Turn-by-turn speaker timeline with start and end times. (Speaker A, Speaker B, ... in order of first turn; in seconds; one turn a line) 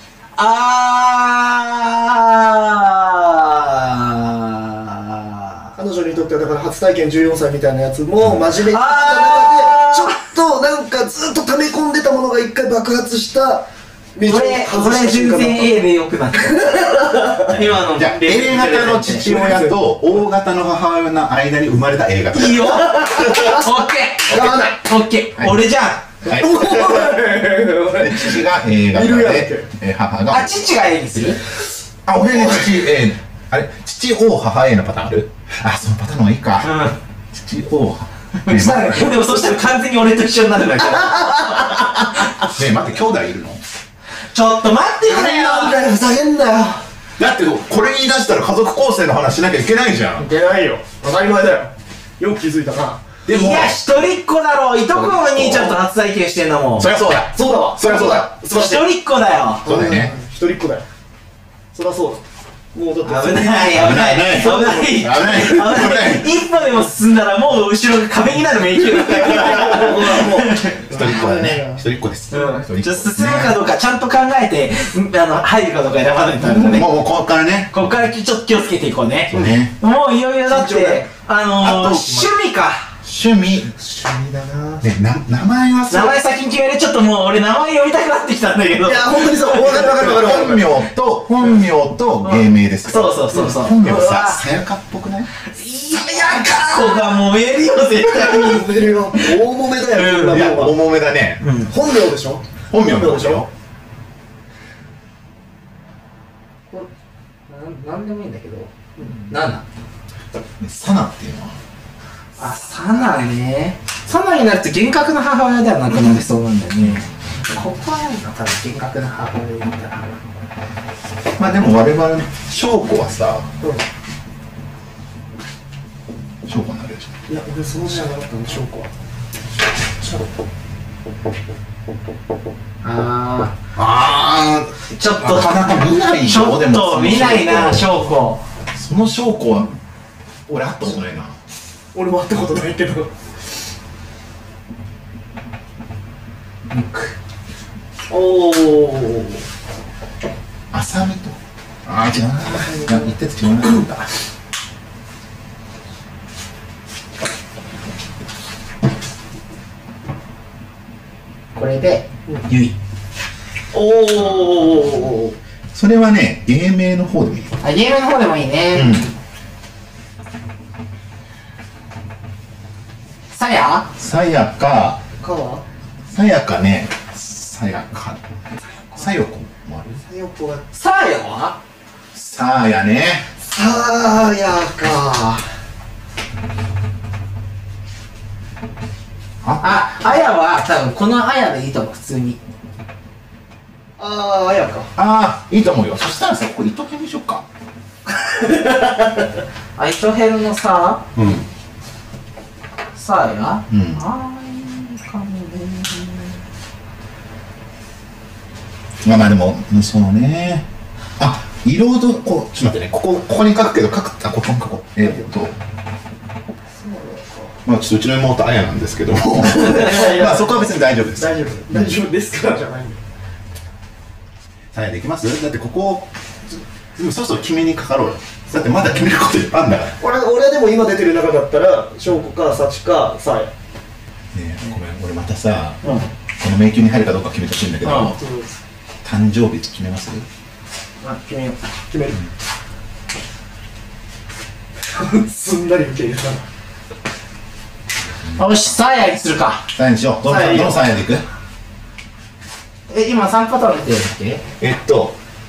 Speaker A: 0.4-5.8
Speaker B: 5.8-15.8
Speaker A: 8.6-10.2
Speaker A: 14.3-19.3
Speaker B: 17.1-17.4
Speaker C: 17.5-23.2
Speaker B: 19.2-19.8
Speaker A: 22.3-26.1
Speaker B: 22.9-23.7
Speaker B: 24.3-24.8
Speaker C: 25.4-25.6
Speaker C: 26.2-27.2
Speaker B: 26.3-29.7
Speaker C: 28.0-30.6
Speaker A: 30.3-31.4
Speaker C: 32.1-36.8
Speaker A: 36.6-37.0
Speaker C: 37.3-39.4
Speaker A: 38.4-41.5
Speaker B: 40.9-42.0
Speaker C: 42.4-43.6
Speaker A: 44.3-45.8
Speaker B: 45.0-46.8
Speaker C: 47.2-50.3
Speaker B: 50.2-53.1
Speaker C: 53.3-53.8
Speaker A: 53.3-56.9
Speaker C: 54.9-55.8
Speaker C: 56.8-58.3
Speaker B: 57.3-58.9
Speaker A: 58.5-59.7
Speaker B: 59.6-60.9
Speaker C: 59.6-60.1
Speaker B: 61.7-65.4
Speaker A: 63.0-70.9
Speaker C: 63.6-66.3
Speaker B: 69.0-71.8
Speaker C: 70.8-73.6
Speaker A: 72.3-76.9
Speaker C: 76.4-77.8
Speaker A: 77.7-82.9
Speaker C: 79.3-79.7
Speaker B: 80.5-81.0
Speaker C: 81.6-82.3
Speaker C: 83.0-83.7
Speaker B: 83.7-84.9
Speaker C: 84.8-86.2
Speaker A: 85.9-89.3
Speaker B: 88.8-90.7
Speaker C: 89.4-95.3
Speaker A: 92.2-94.5
Speaker A: 95.4-99.4
Speaker B: 96.2-97.0
Speaker B: 98.1-100.8
Speaker A: 99.9-100.5
Speaker C: 100.3-101.5
Speaker A: 101.4-101.7
Speaker B: 101.6-103.5
Speaker C: 102.7-103.5
Speaker A: 107.5-108.7
Speaker A: 109.3-109.6
Speaker C: 110.6-111.6
Speaker A: 112.4-120.2
Speaker C: 116.8-117.1
Speaker C: 121.4-123.5
Speaker C: 126.5-127.1
Speaker B: 127.3-128.9
Speaker A: 132.8-133.6
Speaker C: 133.8-138.0
Speaker A: 134.9-138.4
Speaker C: 138.7-139.8
Speaker C: 140.5-141.4
Speaker B: 141.9-143.1
Speaker A: 146.7-147.1
Speaker B: 148.1-149.4
Speaker C: 150.7-154.1
Speaker B: 152.6-153.1
Speaker A: 161.6-162.8
Speaker B: 163.7-165.4
Speaker C: 165.7-167.6
Speaker A: 167.6-169.0
Speaker C: 168.7-169.1
Speaker A: 173.3-173.9
Speaker C: 174.0-175.0
Speaker B: 175.2-175.7
Speaker C: 176.1-178.2
Speaker C: 178.9-180.0
Speaker B: 180.0-180.7
Speaker A: 180.7-181.6
Speaker C: 182.1-183.3
Speaker B: 183.4-185.4
Speaker C: 189.4-190.2
Speaker A: 189.6-192.4
Speaker B: 194.0-194.9
Speaker C: 195.0-197.5
Speaker B: 198.4-198.9
Speaker A: 199.8-201.1
Speaker C: 201.2-201.5
Speaker A: 202.9-206.4
Speaker C: 203.7-204.0
Speaker C: 209.0-210.7
Speaker C: 211.2-215.6
Speaker B: 216.8-217.6
Speaker C: 217.7-221.9
Speaker B: 219.5-223.0
Speaker C: 224.7-226.1
Speaker C: 227.0-230.0
Speaker B: 228.6-228.8
Speaker B: 230.0-233.5
Speaker C: 234.3-235.8
Speaker C: 236.4-238.2
Speaker A: 237.8-238.2
Speaker B: 238.1-238.6
Speaker C: 239.0-240.3
Speaker B: 241.0-242.2
Speaker A: 241.1-241.5
Speaker B: 244.9-246.4
Speaker C: 248.1-248.7
Speaker A: 248.4-249.7
Speaker C: 249.7-251.2
Speaker B: 250.2-250.8
Speaker A: 252.9-254.4
Speaker C: 254.6-255.2